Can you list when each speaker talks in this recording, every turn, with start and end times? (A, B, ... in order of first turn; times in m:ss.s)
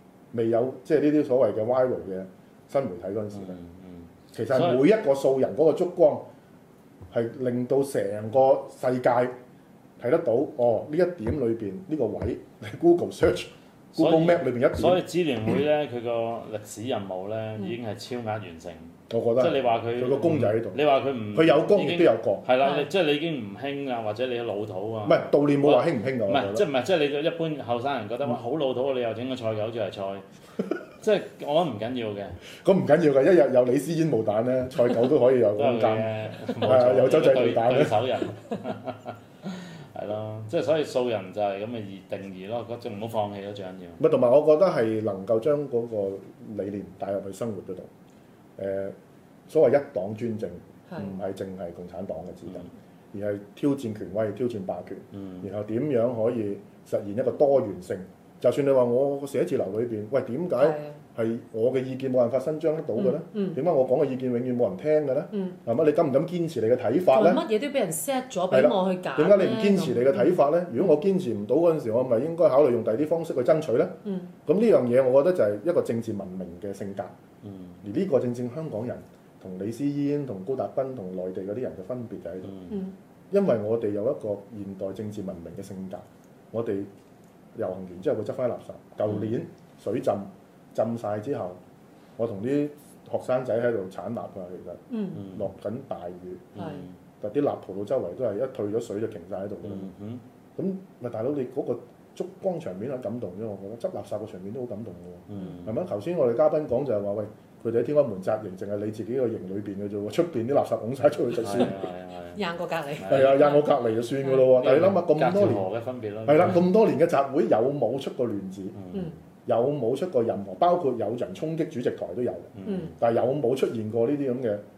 0:00.3-0:03.6 A
0:03.3-0:04.8 B
0:04.3-0:06.3 A
0:07.1-0:09.4 A
0:10.0-0:15.6 A
0:13.9-0:30.2 B
0:19.1-0:20.8 A
0:21.3-0:22.5 A
0:22.6-0:22.9 C
0:25.0-0:26.7 A
0:31.0-0:32.4 B
0:32.6-0:38.0 A
0:35.6-0:44.0 B
0:44.0-0:47.9 A
0:48.6-0:49.0 A
0:49.5-1:07.4 A
0:50.9-0:51.2 C
0:55.1-0:55.5 B
1:00.6-1:01.0 C
1:03.0-1:03.6 C
1:05.3-1:05.6 C
1:07.1-1:10.4 C
1:08.5-1:13.9 A
1:14.0-1:14.3 C
1:14.5-1:17.1 A
1:17.4-1:17.8 B
1:17.8-1:22.5 A
1:22.4-1:22.8 B
1:23.3-1:26.9 A
1:27.6-1:31.6 A
1:29.1-1:29.4 B
1:32.2-1:36.7 A
1:34.9-1:35.2 C
1:35.2-1:35.5 B
1:36.6-1:37.0 B
1:36.6-1:36.9 C
1:37.2-1:39.9 A
1:39.6-1:40.2 B
1:40.6-1:51.8 A
1:45.3-1:45.8 B
1:51.3-1:52.4 B
1:52.4-1:53.7 C
1:53.0-1:53.4 B
1:53.0-1:55.6 A
1:54.4-1:56.7 B
1:56.3-1:58.8 A
1:58.8-1:59.1 B
1:59.5-2:04.6 A
2:02.6-2:03.0 B
2:02.7-2:02.9 C